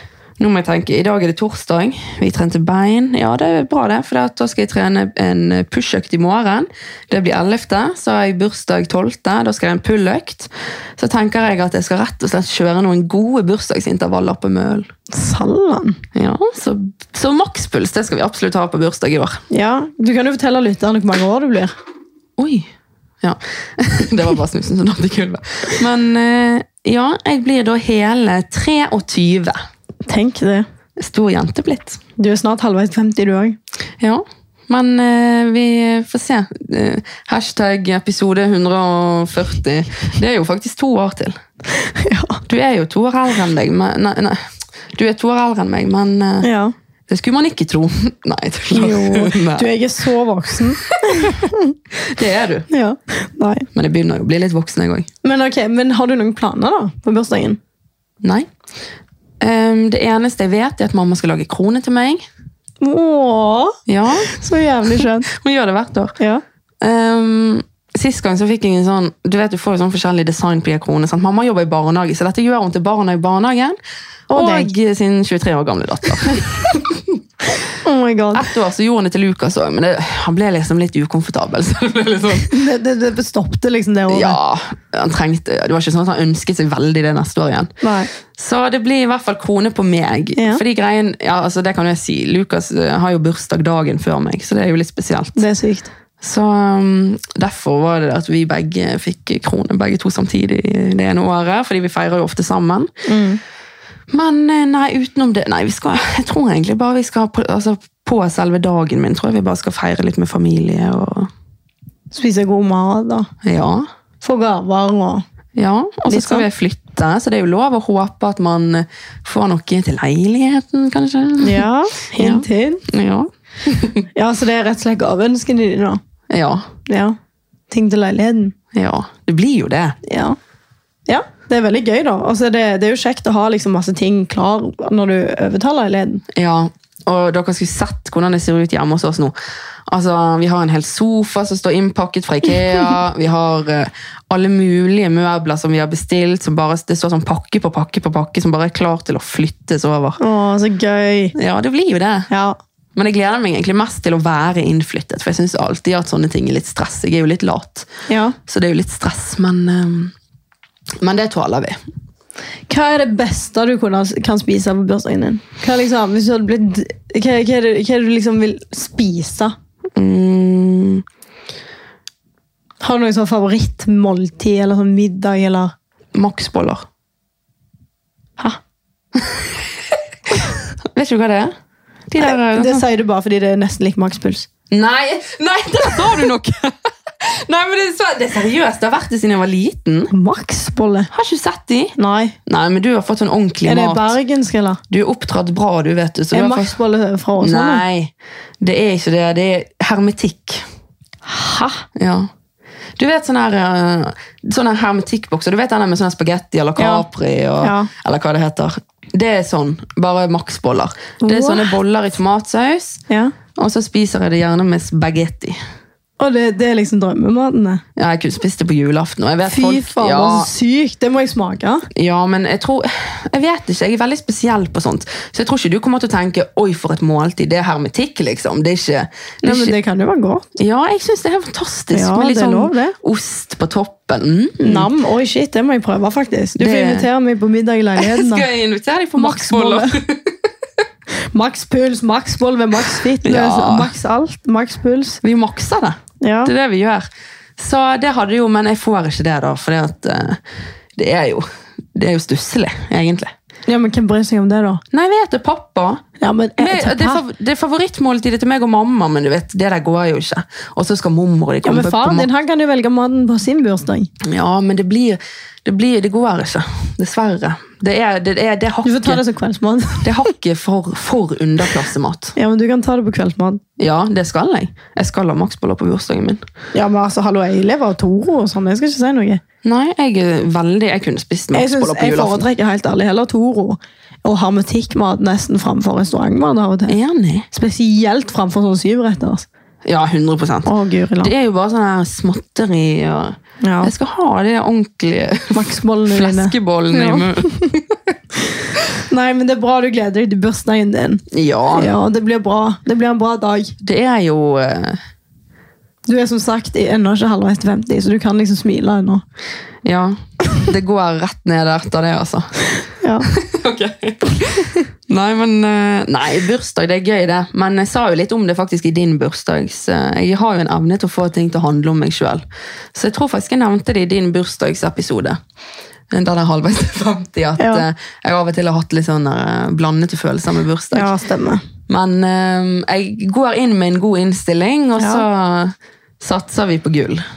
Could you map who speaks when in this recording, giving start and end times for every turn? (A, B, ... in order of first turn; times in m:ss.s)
0:00.4-0:14.9 A
0:15.1-0:16.0 B
0:16.2-0:19.4 A
0:19.5-0:21.7 B
0:22.4-0:22.7 A
0:23.2-0:29.6 A
0:30.1-0:30.7 B
0:31.0-0:32.0 A
0:32.2-0:33.6 B
0:34.0-0:41.4 A
0:41.8-0:42.4 B
0:42.5-0:44.4 A
0:44.9-0:46.5 A
0:46.4-0:46.7 B
0:47.1-0:49.7 A
0:48.7-0:51.8 B
0:52.0-0:52.7 A
0:52.7-0:53.7 B
0:53.8-0:55.1 A
0:55.2-0:57.6 B
0:58.2-0:58.5 A
0:59.4-1:02.2 A
1:02.8-1:05.3 B
1:03.9-1:04.3 A
1:05.0-1:06.2 A
1:06.8-1:13.8 A
1:14.3-1:14.7 B
1:14.3-1:17.2 A
1:17.8-1:18.5 B
1:18.3-1:22.6 A
1:22.5-1:24.4 B
1:24.1-1:27.7 A
1:27.8-1:28.1 B
1:28.3-1:35.4 A
1:30.4-1:30.6 B
1:35.4-1:35.9 B
1:36.2-1:42.9 A
1:43.1-1:43.4 B
1:44.1-1:51.3 A
1:52.1-1:53.3 B
1:53.4-1:53.9 A
1:54.2-1:55.2 B
1:55.6-2:04.1 A
1:56.1-1:56.5 B
2:01.4-2:02.8 B
2:04.1-2:06.0 B
2:06.3-2:06.7 A
2:06.9-2:07.2 B
2:07.7-2:08.6 B
2:08.7-2:10.0 A
2:10.0-2:10.4 B
2:11.1-2:16.2 B
2:16.3-2:19.4 A
2:19.9-2:30.2 A
2:30.2-2:31.4 B
2:31.4-2:32.3 A
2:32.3-2:32.6 B
2:33.0-2:37.9 A
2:38.1-2:38.4 B
2:38.5-2:40.1 A
2:41.0-2:41.8 A
2:42.7-2:49.5 B
2:50.0-2:51.0 A
2:52.8-2:55.7 B
2:56.2-2:56.8 A
3:00.3-3:01.5 A
3:02.1-3:02.8 A
3:02.2-3:04.5 B
3:04.7-3:10.1 A
3:10.1-3:11.1 B
3:11.1-3:11.9 A
3:12.0-3:12.4 B
3:12.5-3:14.2 A
3:13.6-3:14.8 B
3:14.9-3:16.8 A
3:16.3-3:17.8 B
3:17.4-3:20.6 A
3:21.3-3:21.9 B
3:22.0-3:22.3 A
3:23.0-3:33.0 A
3:26.8-3:27.1 B
3:27.6-3:27.9 B
3:31.2-3:31.8 B
3:33.1-3:33.3 B
3:33.6-3:35.6 A
3:36.2-3:37.8 B
3:38.0-3:40.5 A
3:39.5-3:41.9 B
3:41.9-3:49.8 A
3:49.4-3:50.4 B
3:50.6-3:54.9 A
3:51.9-3:53.0 B
3:54.6-3:58.5 B
3:56.6-3:57.1 A
3:58.0-4:00.5 A
3:59.2-4:00.0 B
4:01.3-4:05.2 B
4:03.0-4:03.9 A
4:05.2-4:07.1 A
4:06.2-4:06.5 B
4:07.6-4:10.4 A
4:11.0-4:13.3 A
4:13.7-4:14.8 B
4:14.9-4:16.0 A
4:16.2-4:17.2 B
4:16.6-4:22.3 A
4:21.6-4:24.1 B
4:24.2-4:29.2 A
4:28.8-4:30.1 B
4:30.0-4:32.3 A
4:32.4-4:33.6 B
4:33.8-4:36.4 A
4:36.7-4:39.4 B
4:39.6-4:42.4 A
4:41.5-4:47.0 B
4:46.9-4:47.5 A
4:47.5-4:49.5 B
4:49.8-4:58.1 A
4:50.7-4:51.3 B
4:53.6-4:53.9 B
4:55.5-4:57.7 B
4:59.1-5:03.8 B
5:01.3-5:01.9 A
5:03.8-5:05.0 A
5:06.1-5:09.2 B
5:09.8-5:12.5 A
5:13.0-5:13.3 B
5:13.2-5:22.4 A
5:22.9-5:25.4 A
5:26.1-5:31.1 A
5:27.6-5:27.8 B
5:30.9-5:31.6 B
5:31.9-5:37.2 A
5:35.0-5:35.2 B